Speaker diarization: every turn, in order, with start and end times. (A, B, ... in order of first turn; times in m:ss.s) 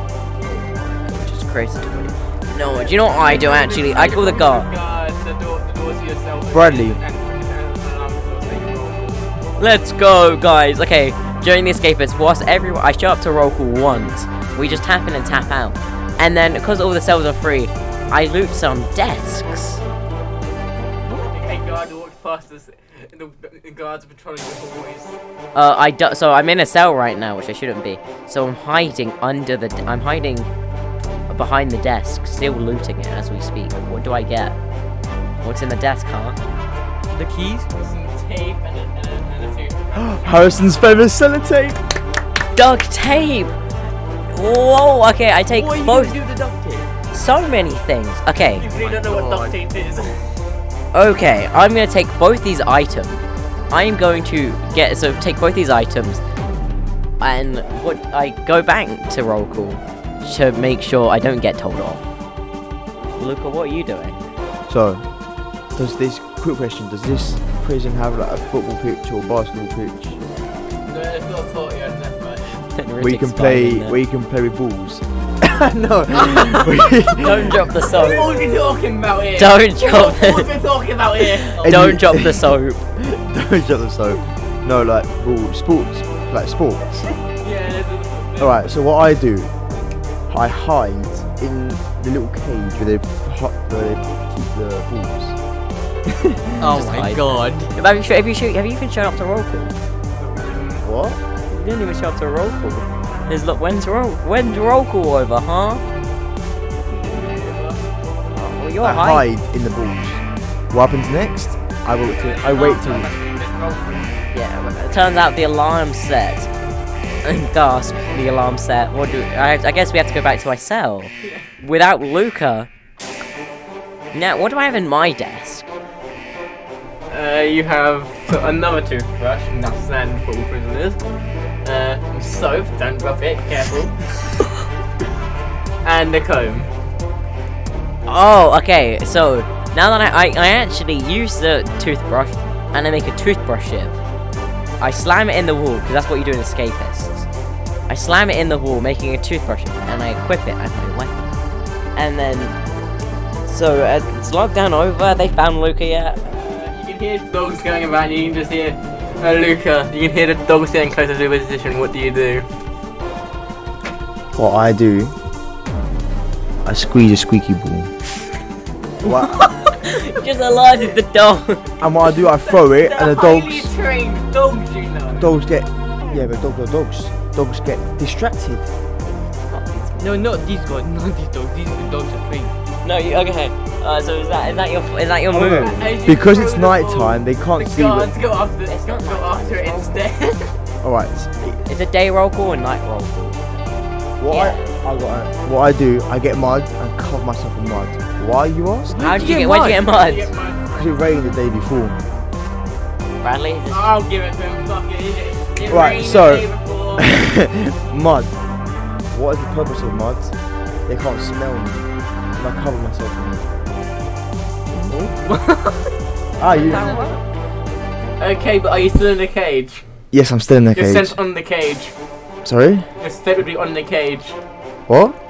0:00.4-0:04.7 A
0:02.6-0:09.2 B
0:06.5-0:07.0 C
0:09.6-0:19.8 A
0:21.2-0:25.2 B
0:25.5-0:30.5 A
0:31.3-0:34.6 A
0:35.4-0:36.4 A
0:37.1-0:37.7 D
0:37.7-0:40.3 B
0:39.9-0:41.8 C
0:42.5-0:43.5 A
0:44.3-0:46.2 A
0:45.5-0:46.9 D
0:47.1-0:48.7 A
0:48.6-0:50.4 B
0:48.7-0:49.5 D
0:50.9-0:56.2 A
0:57.2-1:02.0 A
1:03.2-1:04.2 A
1:04.7-1:05.0 C
1:05.7-1:10.2 C
1:10.9-1:12.6 B
1:12.8-1:14.0 A
1:13.0-1:18.3 C
1:17.1-1:18.3 A
1:18.0-1:21.7 B
1:19.4-1:20.5 A
1:21.4-1:22.8 A
1:21.6-1:27.0 C
1:27.3-1:28.7 B
1:28.4-1:29.5 C
1:30.3-1:35.4 C
1:36.6-1:37.7 D
1:36.6-1:39.7 A
1:40.1-1:40.8 B
1:40.8-1:41.2 C
1:41.5-1:45.8 A
1:46.8-1:47.8 B
1:48.3-1:49.2 A
1:48.8-1:53.1 C
1:52.0-1:54.2 B
1:54.3-1:56.5 A
1:57.2-2:02.7 A
2:01.2-2:01.5 B
2:04.1-2:05.7 A
2:07.1-2:11.0 B
2:11.6-2:14.3 B
2:15.8-2:16.7 B
2:18.1-2:24.0 A
2:24.8-2:27.3 A
2:27.9-2:31.3 A
2:32.0-2:32.5 A
2:33.4-2:36.2 A
2:36.4-2:42.4 B
2:44.3-2:45.1 C
2:46.6-2:47.9 C
2:49.0-2:49.4 C
2:49.7-2:51.7 A
2:51.8-2:53.7 C
2:52.4-2:55.3 B
2:55.2-2:58.7 C
2:59.5-3:00.2 A
3:00.0-3:02.5 D
3:02.8-3:05.8 A
3:05.3-3:10.6 B
3:05.3-3:08.1 C
3:08.7-3:10.0 A
3:10.8-3:11.6 C
3:11.7-3:13.8 A
3:14.2-3:18.9 C
3:14.3-3:14.7 A
3:18.9-3:19.8 D
3:19.0-3:20.3 A
3:19.9-3:21.0 B
3:20.8-3:22.0 C
3:23.2-3:23.9 A
3:23.7-3:27.1 B
3:25.6-3:28.3 C
3:29.1-3:30.3 C
3:30.9-3:33.5 C
3:35.1-3:35.9 B
3:36.4-3:37.0 C
3:36.5-3:37.2 A
3:38.2-3:39.8 B
3:40.1-3:41.2 C
3:40.7-3:41.9 B
3:42.4-3:42.9 C
3:43.0-3:44.4 B
3:44.9-3:45.2 C